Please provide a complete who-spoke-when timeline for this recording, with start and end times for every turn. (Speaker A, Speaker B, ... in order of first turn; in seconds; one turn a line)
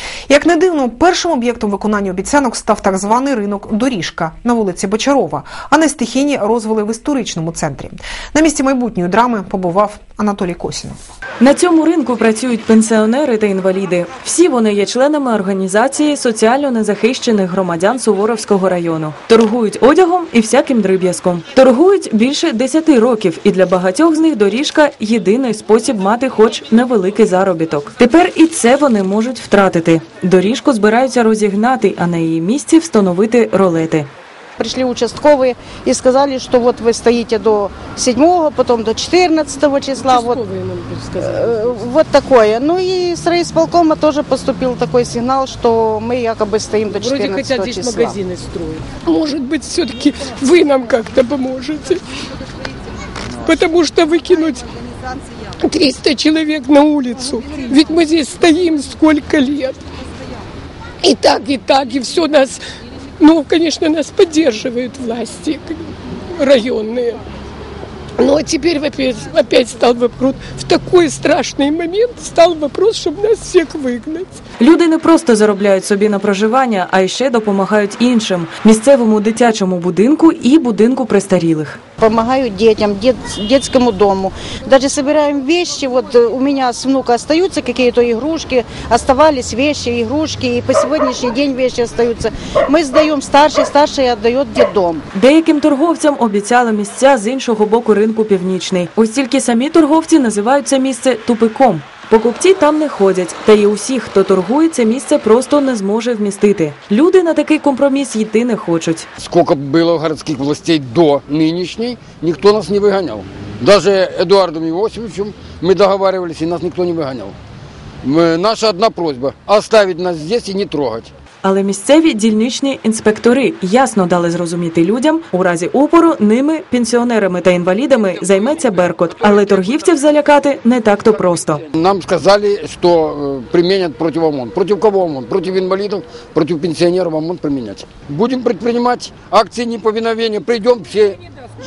Speaker A: 0.3-11.0
Speaker B: 11.4-34.1
Speaker C: 34.6-40.4
Speaker D: 40.0-41.8
Speaker C: 41.2-48.2
Speaker D: 47.0-52.0
Speaker D: 53.4-54.7
Speaker D: 55.6-59.8
Speaker D: 61.0-62.6
Speaker D: 63.2-67.2
Speaker D: 68.2-74.4
Speaker B: 74.6-81.8
Speaker C: 82.0-95.0
Speaker B: 95.1-109.1
Speaker E: 109.2-117.3
Speaker E: 118.0-121.1
Speaker B: 121.4-131.6
Speaker E: 131.7-141.2